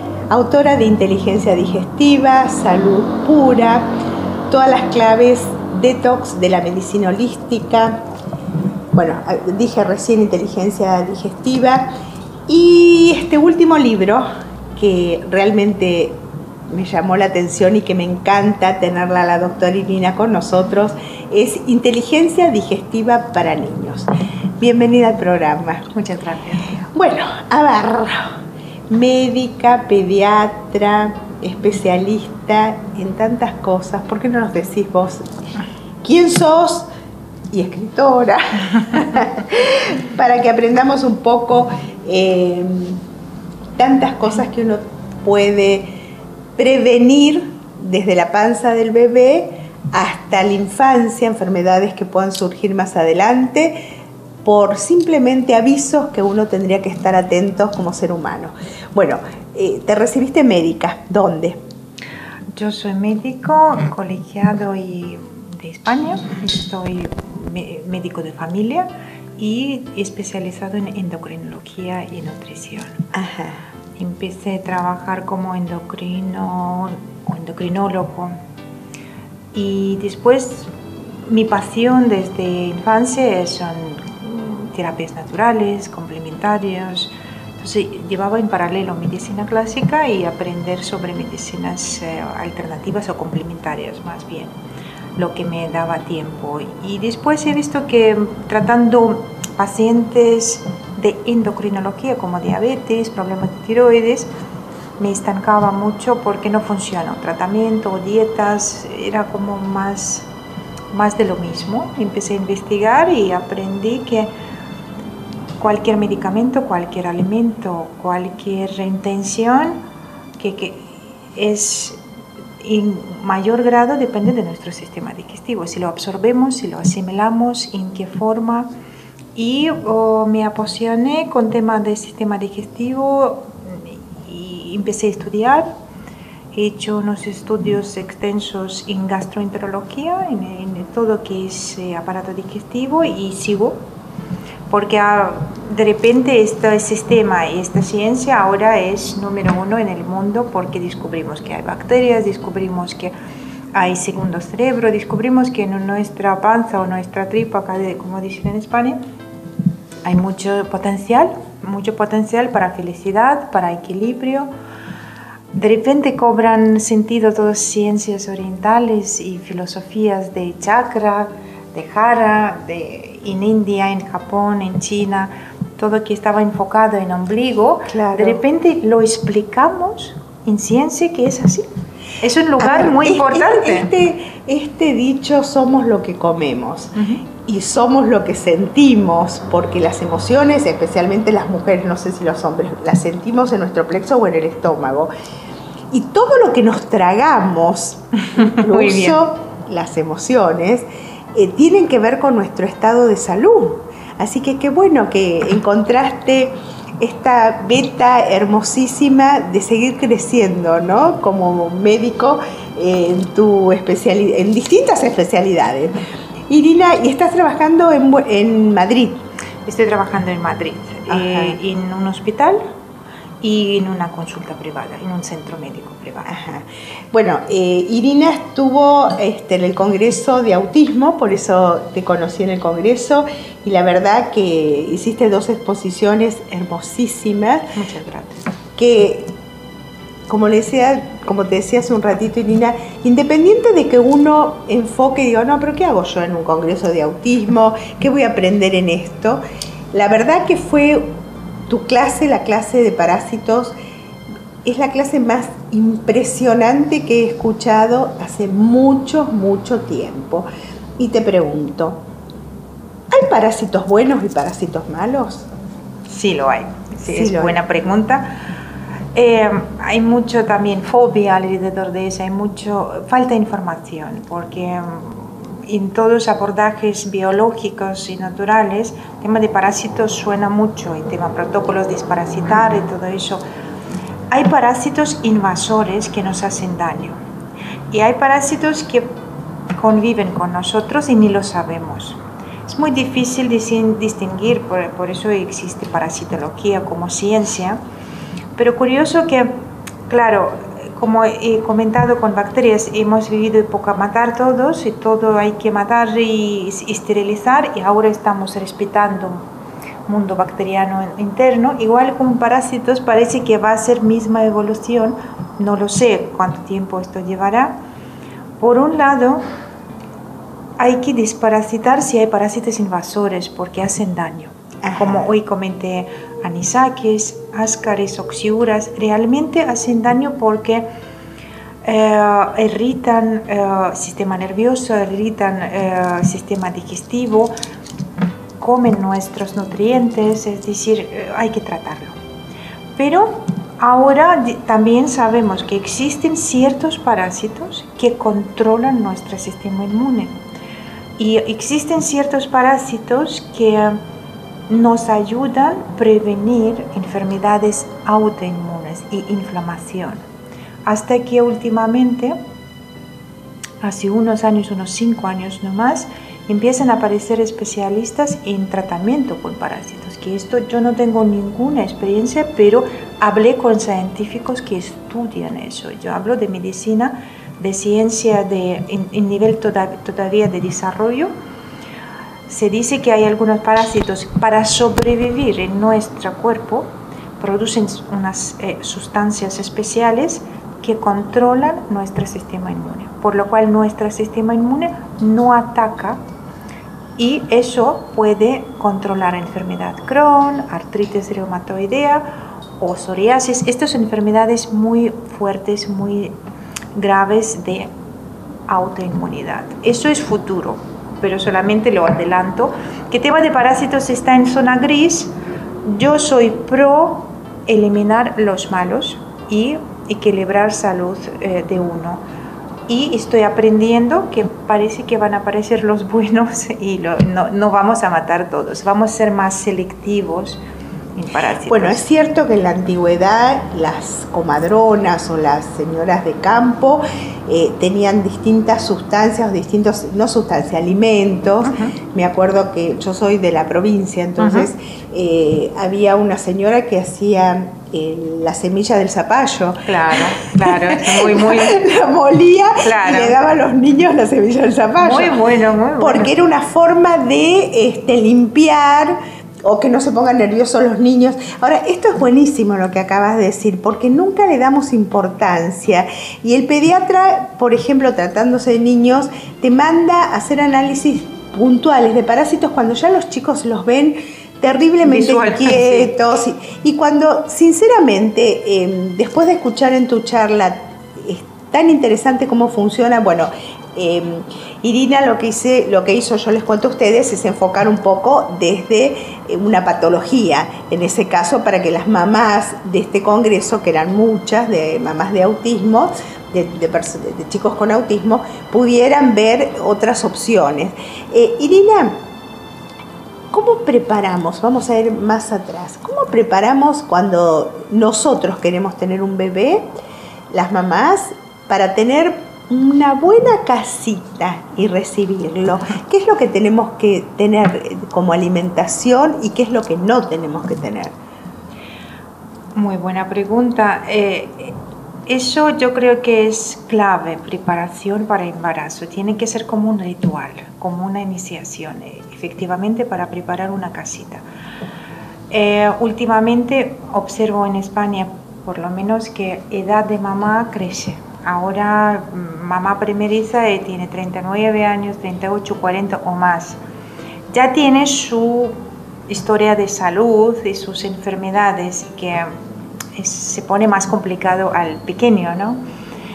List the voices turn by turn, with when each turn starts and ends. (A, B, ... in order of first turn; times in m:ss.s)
0:00.3-0:03.9 A
0:04.5-0:08.0 A
0:08.9-0:11.9 A
0:12.5-0:25.9 A
0:25.9-0:26.8 B
0:26.9-0:28.3 A
0:28.9-0:35.2 A
0:36.0-0:36.9 A
0:37.5-0:43.0 A
0:43.8-0:45.9 A
0:46.6-0:53.8 A
0:54.4-1:01.6 A
1:02.6-1:13.1 B
1:13.1-1:13.6 A
1:14.0-1:18.4 B
1:19.5-1:34.6 B
1:35.2-1:44.3 B
1:45.0-1:50.3 B
1:50.9-1:54.3 B
1:55.6-1:59.8 B
2:00.4-2:02.0 B
2:02.6-2:08.7 B
2:09.4-2:15.7 B
2:16.5-2:23.8 B
2:24.7-2:33.1 B
2:33.7-2:39.0 B
2:40.0-2:44.5 B
2:45.5-3:01.6 B
2:57.9-2:58.4 A
3:02.2-3:03.9 B
3:02.6-3:15.1 A
3:07.0-3:07.2 B
3:15.9-3:39.2 A
3:18.2-3:19.2 B
3:39.7-3:42.6 B
3:41.1-3:41.6 A
3:43.4-3:46.4 B
3:46.3-3:57.7 A
3:57.8-3:58.5 B
3:58.8-3:59.3 A
4:00.3-4:11.1 A
4:11.7-4:13.7 A
4:14.6-4:20.5 A
4:21.0-4:22.0 A
4:23.1-4:25.5 A
4:26.1-4:28.3 B
4:27.0-4:27.6 A
4:29.2-4:43.4 B
4:44.3-4:47.2 B
4:47.9-4:49.2 B
4:49.7-4:57.8 B
4:58.6-4:59.6 B
5:00.1-5:09.5 B
5:10.1-5:17.8 B
5:18.6-5:19.5 B
5:20.8-5:30.9 B
5:24.8-5:25.3 A
5:31.8-5:37.5 B
5:38.6-5:42.2 B
5:43.0-5:50.4 B
5:51.2-5:54.0 B
5:54.7-6:00.2 B
6:00.9-6:02.4 B
6:03.8-6:21.3 B
6:22.5-6:36.2 B
6:37.2-6:42.3 B
6:42.8-6:46.4 B
6:47.0-6:47.9 B
6:48.7-7:02.2 B
7:02.9-7:10.6 B
7:11.2-7:12.0 B
7:11.7-7:35.4 A
7:21.6-7:22.0 B
7:24.4-7:24.7 B
7:29.8-7:31.8 B
7:32.8-7:33.4 B
7:35.0-7:36.3 B
7:36.0-8:22.2 A
7:55.0-7:56.2 B
8:23.5-8:29.9 A
8:30.5-8:41.2 A
8:42.8-8:44.8 B
8:45.3-8:54.4 B
8:55.5-9:06.8 B
9:07.5-9:08.8 B
9:09.3-9:12.6 B
9:13.2-9:15.8 B